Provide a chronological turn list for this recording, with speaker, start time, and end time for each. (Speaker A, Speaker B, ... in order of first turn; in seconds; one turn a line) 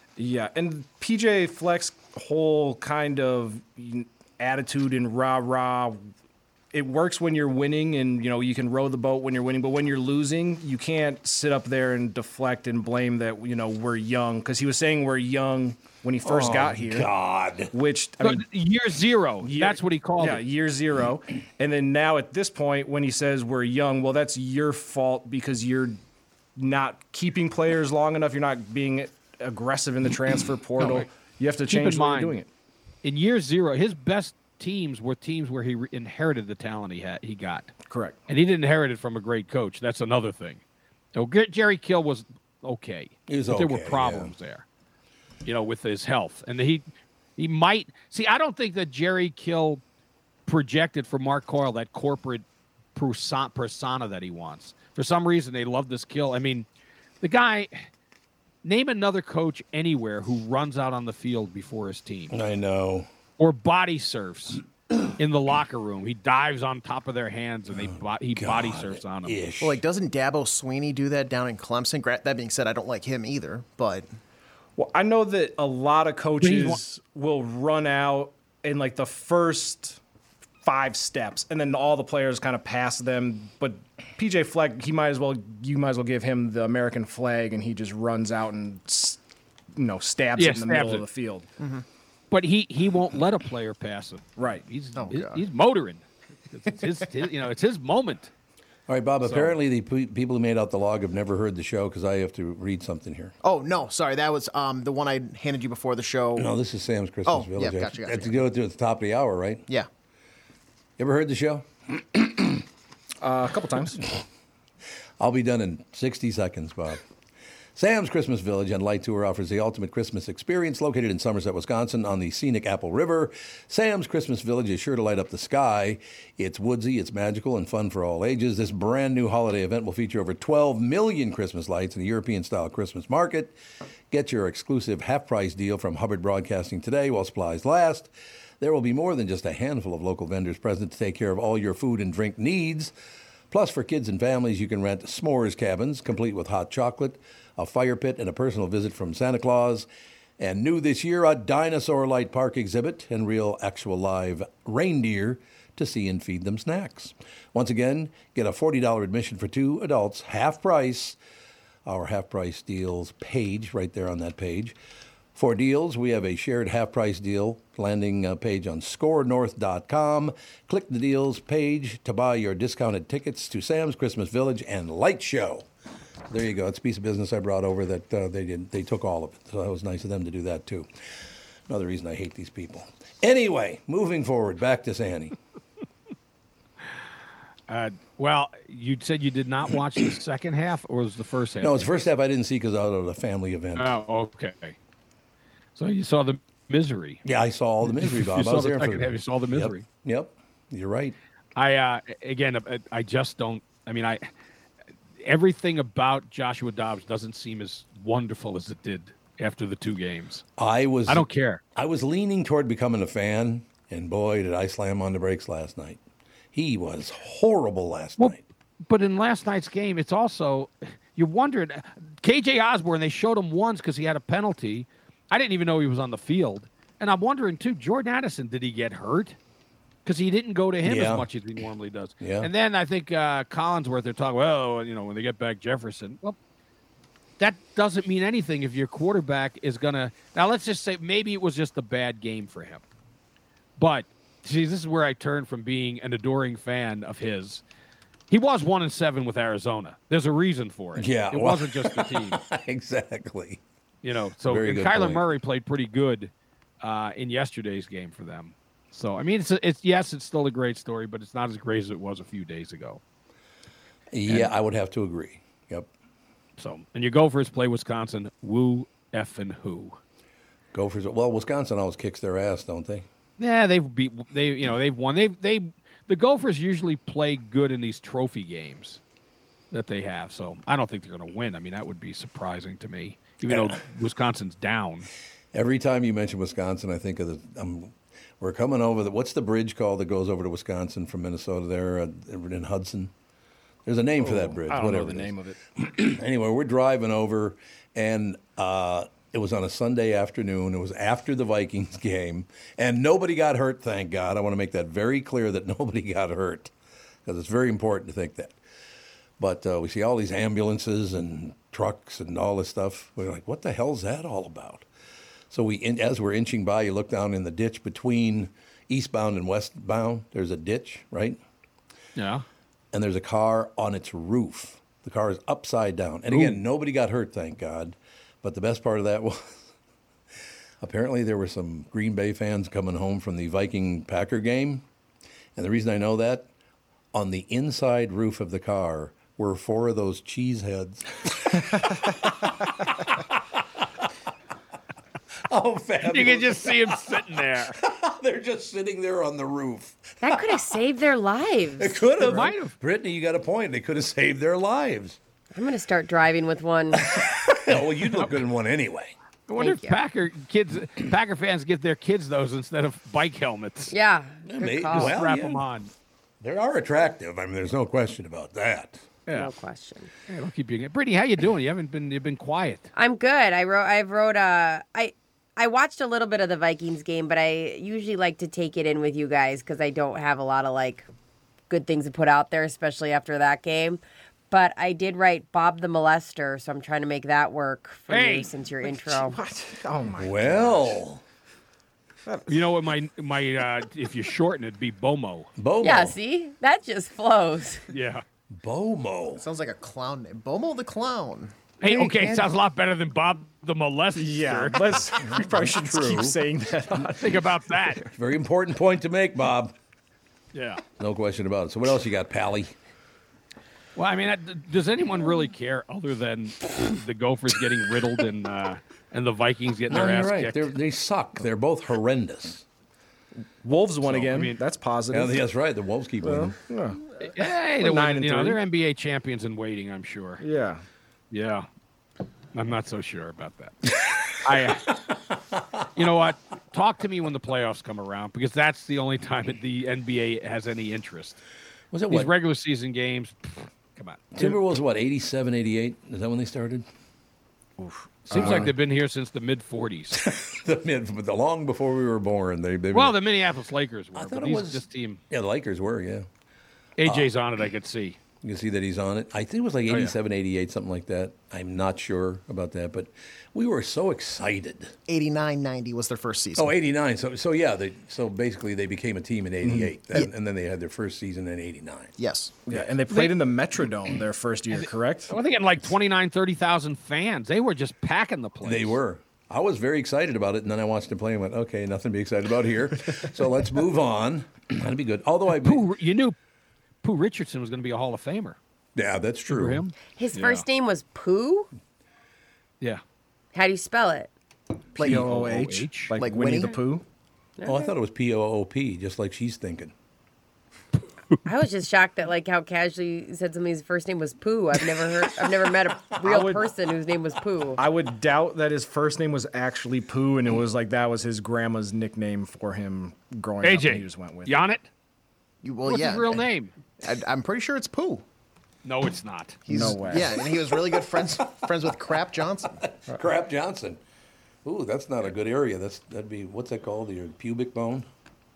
Speaker A: 0.2-6.1
Speaker A: 6.7-17.1
Speaker B: 16.2-17.7
Speaker A: 17.7-18.4
Speaker C: 18.2-20.4
Speaker A: 19.4-26.0
Speaker A: 26.6-32.5
Speaker C: 30.8-31.1
Speaker C: 31.6-32.4
Speaker C: 33.0-37.7
Speaker A: 37.9-38.2
Speaker C: 38.3-40.6
Speaker C: 41.1-44.6
Speaker B: 43.3-44.3
Speaker C: 45.4-49.8
Speaker C: 50.5-56.7
Speaker C: 57.2-57.9
Speaker C: 58.6-62.3
Speaker B: 62.3-63.1
Speaker C: 63.4-64.6
Speaker C: 65.2-69.4
Speaker B: 67.7-69.8
Speaker D: 69.6-74.1
Speaker A: 74.8-80.0
Speaker C: 76.4-76.8
Speaker A: 80.6-89.2
Speaker A: 89.7-91.5
Speaker C: 90.3-91.1
Speaker D: 91.6-91.8
Speaker C: 92.3-98.3
Speaker D: 94.9-95.4
Speaker B: 98.9-103.3
Speaker C: 99.2-99.5
Speaker D: 103.4-106.5
Speaker B: 106.4-109.6
Speaker D: 107.2-108.4
Speaker B: 111.0-112.6
Speaker A: 113.2-114.2
Speaker B: 115.2-117.0
Speaker B: 117.8-133.6
Speaker B: 134.1-142.9
Speaker B: 143.5-149.9
Speaker B: 150.4-161.2
Speaker B: 161.8-164.8
Speaker B: 165.3-175.7
Speaker B: 176.3-180.9
Speaker B: 181.7-185.3
Speaker C: 187.7-192.0
Speaker B: 191.6-193.9
Speaker C: 193.8-194.8
Speaker C: 195.8-197.2
Speaker B: 197.2-201.2
Speaker C: 197.9-199.8
Speaker C: 201.5-204.3
Speaker C: 205.2-210.4
Speaker B: 210.6-216.0
Speaker C: 211.1-211.6
Speaker B: 216.5-218.4
Speaker C: 218.2-229.4
Speaker C: 230.0-236.4
Speaker B: 230.8-231.3
Speaker B: 232.2-232.5
Speaker C: 237.4-242.8
Speaker C: 243.8-247.6
Speaker C: 248.3-252.4
Speaker B: 250.9-253.6
Speaker C: 254.0-263.0
Speaker B: 254.4-255.2
Speaker B: 264.1-265.9
Speaker C: 266.6-270.0
Speaker B: 270.7-273.1
Speaker C: 273.4-279.0
Speaker C: 279.7-285.1
Speaker B: 283.5-283.8
Speaker B: 285.5-293.1
Speaker B: 293.9-306.7
Speaker A: 294.2-295.6
Speaker B: 307.2-308.6
Speaker B: 309.4-314.9
Speaker B: 315.5-321.4
Speaker C: 322.1-322.4
Speaker B: 322.9-329.7
Speaker C: 326.3-326.6
Speaker B: 330.8-334.8
Speaker B: 335.6-336.5
Speaker B: 337.1-342.8
Speaker B: 345.5-347.2
Speaker C: 346.0-347.8
Speaker B: 347.7-350.6
Speaker E: 350.2-352.4
Speaker B: 351.8-355.2
Speaker C: 352.2-352.7
Speaker E: 355.5-357.1
Speaker B: 357.0-359.1
Speaker C: 359.5-363.9
Speaker E: 359.6-360.0
Speaker E: 363.9-365.2
Speaker B: 364.5-365.6
Speaker C: 364.9-365.9
Speaker B: 366.4-369.0
Speaker E: 369.3-370.1
Speaker C: 370.3-372.9
Speaker E: 372.9-381.1
Speaker E: 381.7-389.4
Speaker C: 388.1-388.5
Speaker A: 388.8-391.0
Speaker B: 390.2-391.2
Speaker A: 392.2-392.6
Speaker C: 392.5-395.5
Speaker B: 395.6-396.2
Speaker E: 395.8-397.8
Speaker C: 397.9-398.2
Speaker B: 398.5-399.4
Speaker D: 399.4-401.5
Speaker C: 401.8-405.1
Speaker A: 404.2-408.0
Speaker B: 405.2-406.4
Speaker C: 406.9-408.0
Speaker B: 408.1-409.7
Speaker C: 410.5-410.8
Speaker B: 411.0-412.7
Speaker C: 413.9-420.7
Speaker B: 419.9-422.6
Speaker A: 423.6-425.4
Speaker C: 424.0-424.6
Speaker B: 425.1-426.6
Speaker A: 426.2-428.6
Speaker C: 427.2-430.4
Speaker A: 430.4-430.8
Speaker C: 431.3-431.7
Speaker C: 432.5-433.8
Speaker C: 434.3-434.9
Speaker B: 435.5-435.8
Speaker C: 435.9-441.4
Speaker B: 441.9-442.3
Speaker C: 442.1-444.6
Speaker B: 444.3-446.9
Speaker A: 447.8-448.7
Speaker B: 448.2-448.7
Speaker C: 448.3-450.2
Speaker B: 450.1-453.2
Speaker C: 452.9-455.2
Speaker B: 454.1-456.3
Speaker C: 457.0-458.2
Speaker B: 457.0-457.3
Speaker B: 458.4-464.9
Speaker C: 459.9-460.1
Speaker D: 465.1-466.7
Speaker B: 466.6-472.1
Speaker A: 469.6-469.9
Speaker D: 472.2-472.5
Speaker A: 472.6-475.3
Speaker C: 474.7-479.0
Speaker B: 478.6-485.8
Speaker C: 485.6-486.4
Speaker C: 487.0-488.6
Speaker B: 488.9-489.8
Speaker C: 489.5-490.6
Speaker E: 490.1-491.7
Speaker E: 493.5-494.3
Speaker D: 494.9-495.5
Speaker C: 495.0-496.1
Speaker A: 495.0-497.0
Speaker D: 496.1-496.8
Speaker E: 497.6-497.9
Speaker B: 497.6-499.9
Speaker E: 501.4-507.8
Speaker A: 506.2-506.6
Speaker A: 507.8-514.5
Speaker C: 513.6-514.9
Speaker D: 515.6-516.4
Speaker C: 515.8-516.7
Speaker D: 517.0-518.2
Speaker C: 518.8-519.6
Speaker D: 519.6-522.8
Speaker A: 519.7-520.4
Speaker B: 522.8-524.0
Speaker B: 524.6-528.1